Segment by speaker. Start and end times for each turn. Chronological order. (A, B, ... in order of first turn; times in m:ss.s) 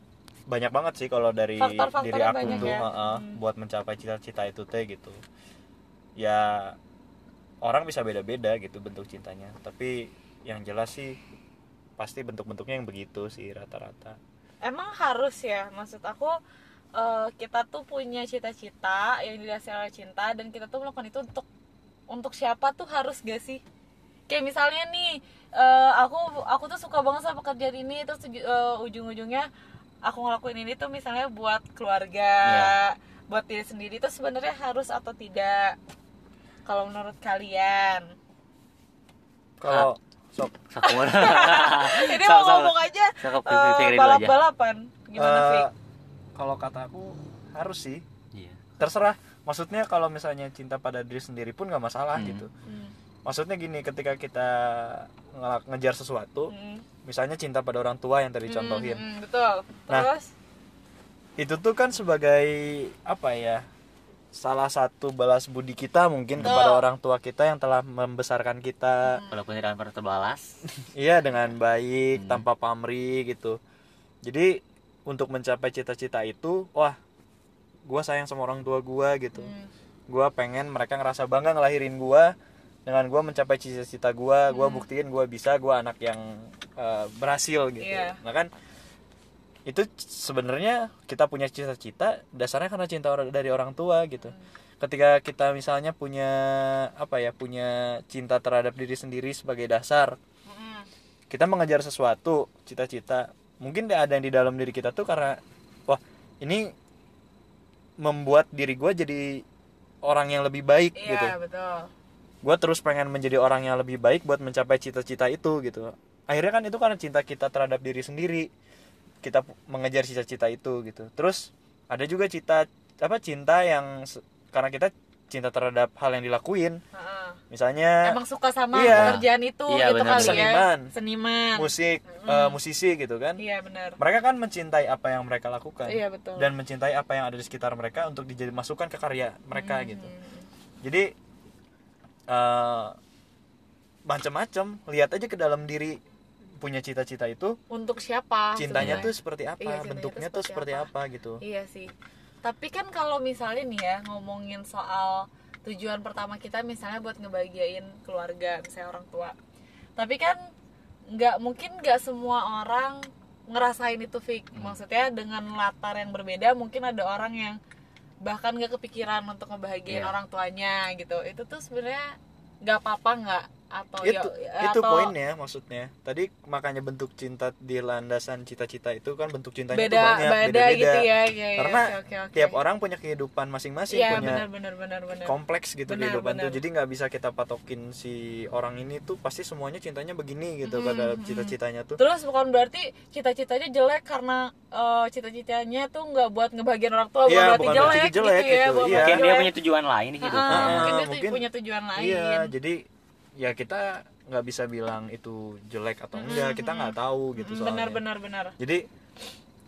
0:00.5-0:05.2 A
0:01.6-0:03.4 B
0:02.4-0:02.8 C
0:06.2-0:06.8 A
0:07.6-0:11.2 A
0:12.0-0:14.2 A
0:14.6-0:16.4 B
0:17.0-0:21.5 B
0:22.1-0:23.6 B
0:24.3-0:29.5 B
0:30.0-0:35.8 B
0:32.4-0:32.7 C
0:36.7-0:38.1 B
0:39.6-0:40.6 A
0:40.7-0:44.4 C
0:40.8-0:45.7 B
0:45.2-0:45.7 A
0:46.4-0:48.0 A
0:48.3-0:48.7 C
0:48.8-0:52.5 A
0:52.2-0:52.5 C
0:52.7-0:52.9 B
0:53.2-0:56.5 A
0:56.5-0:56.8 B
0:57.0-0:59.0 A
0:58.5-1:00.3 B
1:01.4-1:03.7 A
1:04.3-1:09.2 A
1:06.4-1:06.8 B
1:09.0-1:09.4 B
1:09.3-1:10.6 C
1:10.9-1:13.6 A
1:12.2-1:12.4 C
1:14.2-1:17.0 A
1:17.9-1:19.5 A
1:19.4-1:19.7 B
1:20.1-1:22.3 A
1:22.9-1:28.5 A
1:24.5-1:24.9 B
1:27.8-1:28.2 B
1:29.7-1:40.2 A
1:40.5-1:40.9 B
1:41.3-1:46.7 A
1:48.0-1:49.4 A
1:50.0-1:51.4 A
1:51.0-1:51.9 B
1:52.4-1:58.5 A
1:59.2-2:06.8 A
2:06.9-2:07.4 B
2:07.5-2:08.2 A
2:08.0-2:12.6 B
2:08.7-2:09.2 A
2:08.9-2:10.6 C
2:10.1-2:10.9 A
2:11.6-2:13.4 A
2:13.4-2:14.0 B
2:14.0-2:20.1 A
2:15.9-2:16.5 B
2:19.5-2:20.5 B
2:20.8-2:21.1 A
2:22.3-2:23.0 A
2:24.1-2:26.0 A
2:26.6-2:27.6 A
2:27.7-2:30.9 B
2:28.6-2:31.4 A
2:28.8-2:29.1 C
2:31.4-2:31.9 B
2:32.4-2:39.4 B
2:40.0-2:40.4 B
2:41.1-2:47.6 B
2:48.2-2:55.1 B
2:49.9-2:50.2 C
2:54.0-3:04.5 A
2:59.7-3:02.6 B
3:03.9-3:05.4 B
3:05.2-3:12.0 A
3:05.9-3:06.6 B
3:10.6-3:19.5 B
3:17.3-3:19.3 A
3:17.7-3:18.0 C
3:18.9-3:20.9 C
3:20.2-3:22.5 B
3:20.5-3:22.9 A
3:23.4-3:28.0 A
3:26.1-3:28.6 B
3:28.6-3:28.9 A